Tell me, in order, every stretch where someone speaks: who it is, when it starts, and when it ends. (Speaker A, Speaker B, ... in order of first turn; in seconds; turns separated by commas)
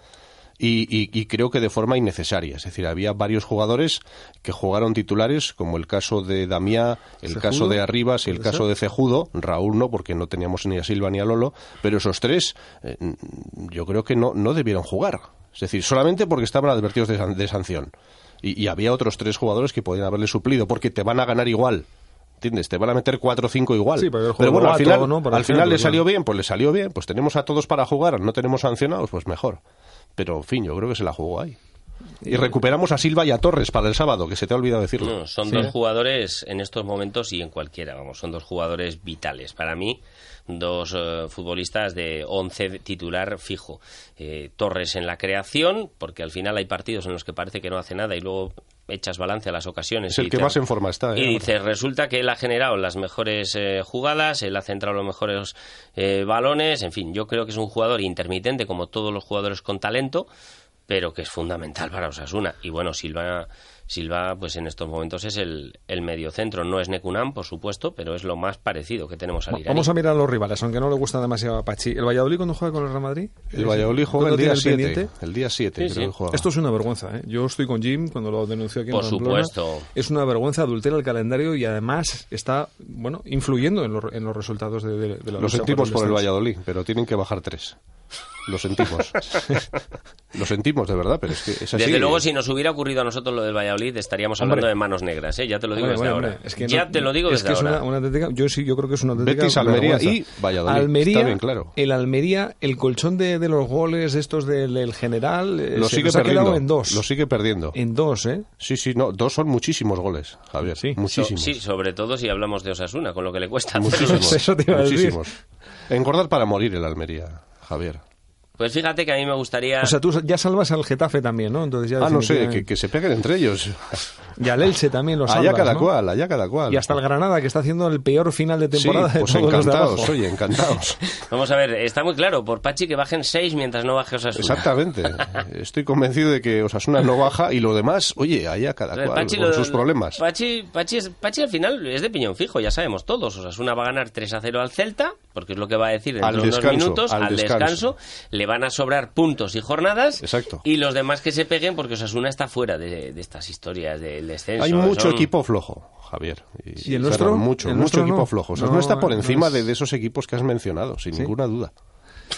Speaker A: 0.6-17.9, Speaker B: 7.3-8.6, Speaker A: 18.4-21.9, Speaker A: 22.4-29.6, Speaker B: 24.0-26.0, Speaker A: 30.2-31.6, Speaker B: 32.2-32.5, Speaker A: 32.2-35.7, Speaker C: 35.0-50.6, Speaker A: 50.1-51.5, Speaker C: 51.1-60.3, Speaker C: 60.9-69.9, Speaker B: 69.5-75.1, Speaker A: 73.5-76.5, Speaker C: 75.8-76.1, Speaker B: 76.3-86.3, Speaker C: 78.9-79.9, Speaker A: 85.4-87.8, Speaker A: 88.5-89.5, Speaker A: 90.3-92.2, Speaker C: 91.7-97.8, Speaker B: 94.4-94.7, Speaker B: 95.7-107.0, Speaker A: 99.1-101.7, Speaker A: 105.7-107.8, Speaker B: 107.7-108.5, Speaker A: 108.6-111.6, Speaker B: 110.7-111.0, Speaker C: 111.1-114.4, Speaker A: 113.7-115.3, Speaker B: 113.9-115.3, Speaker A: 115.9-118.0, Speaker C: 118.6-119.9, Speaker B: 119.8-122.7, Speaker A: 122.0-124.0, Speaker B: 124.4-125.9, Speaker A: 125.2-127.0, Speaker B: 126.7-130.7, Speaker A: 128.7-131.0, Speaker C: 131.3-135.3, Speaker A: 134.3-140.2, Speaker C: 138.9-155.3, Speaker A: 146.2-147.9, Speaker A: 150.2-150.6, Speaker A: 154.6-161.7, Speaker B: 156.8-159.6